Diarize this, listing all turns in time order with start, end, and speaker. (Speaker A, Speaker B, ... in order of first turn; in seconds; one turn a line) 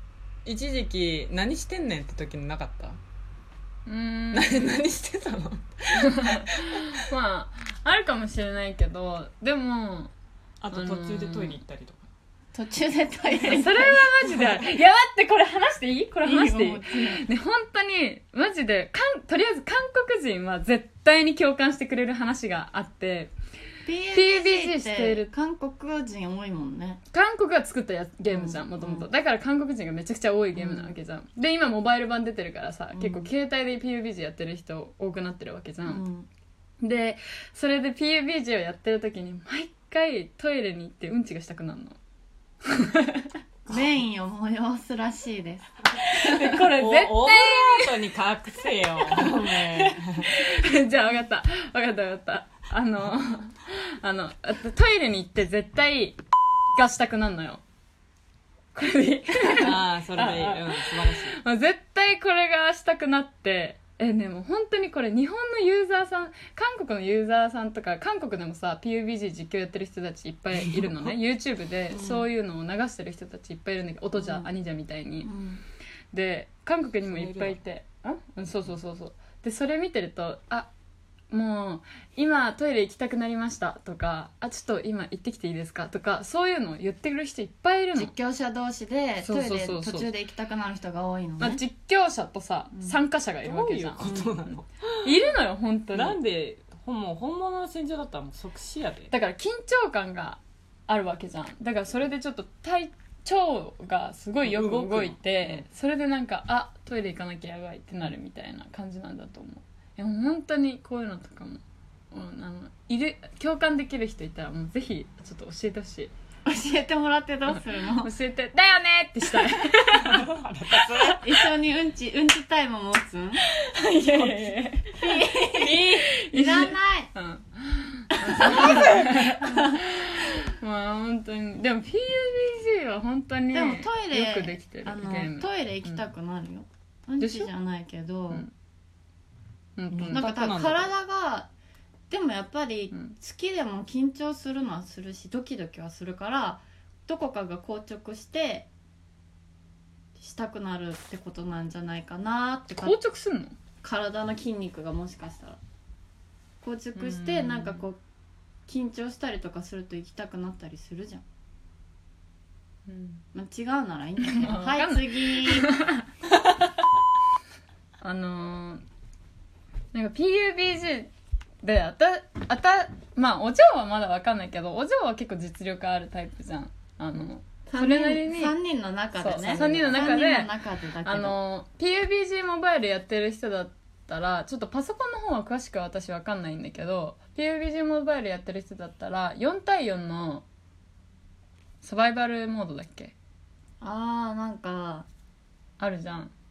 Speaker A: 0.4-3.0
Speaker B: 3.9-4.8
Speaker A: 4.3-6.9
Speaker B: 6.0-10.1
Speaker A: 10.6-12.0
Speaker B: 10.7-11.6
Speaker C: 12.5-14.4
Speaker B: 13.4-23.3
Speaker C: 16.2-17.3
Speaker C: 23.8-27.0
Speaker B: 24.1-25.3
Speaker B: 27.1-36.0
Speaker C: 28.3-29.1
Speaker C: 30.5-31.0
Speaker C: 32.9-33.3
Speaker C: 35.8-36.3
Speaker B: 36.8-42.0
Speaker B: 42.6-43.3
Speaker C: 43.7-46.5
Speaker B: 46.0-48.1
Speaker A: 46.4-50.3
Speaker B: 49.1-56.2
Speaker B: 56.7-57.6
Speaker B: 58.7-75.3
Speaker A: 59.6-61.4
Speaker A: 70.6-71.1
Speaker C: 71.9-72.3
Speaker C: 74.2-74.5
Speaker C: 75.2-75.6
Speaker B: 76.1-80.7
Speaker A: 77.0-77.6
Speaker B: 81.3-88.1
Speaker C: 87.9-91.6
Speaker B: 89.2-90.1
Speaker B: 91.4-94.0
Speaker C: 92.7-93.0
Speaker A: 93.4-95.3
Speaker C: 94.0-94.3
Speaker B: 95.0-96.2
Speaker A: 95.9-99.1
Speaker B: 99.1-116.1
Speaker A: 104.4-105.7
Speaker C: 116.5-118.1
Speaker B: 117.5-120.2
Speaker A: 120.0-121.2
Speaker C: 121.0-123.4
Speaker B: 123.5-136.0
Speaker C: 125.0-127.1
Speaker C: 128.3-129.8
Speaker A: 128.7-129.2
Speaker C: 133.5-138.4
Speaker B: 137.2-137.5
Speaker B: 139.8-140.3
Speaker A: 140.0-140.9
Speaker C: 140.0-141.5
Speaker C: 142.1-148.7
Speaker B: 142.9-143.2
Speaker C: 150.2-153.0
Speaker B: 152.8-153.6
Speaker C: 153.8-155.6
Speaker C: 156.6-158.0
Speaker B: 157.0-157.8
Speaker C: 158.7-161.2
Speaker B: 162.9-163.2
Speaker C: 163.3-165.7
Speaker B: 164.2-165.9
Speaker B: 168.0-168.8
Speaker B: 169.9-171.1
Speaker B: 171.6-178.6
Speaker C: 177.7-181.4
Speaker B: 179.2-180.5
Speaker B: 181.0-190.4
Speaker B: 191.8-193.1
Speaker C: 193.8-195.1
Speaker B: 195.8-196.3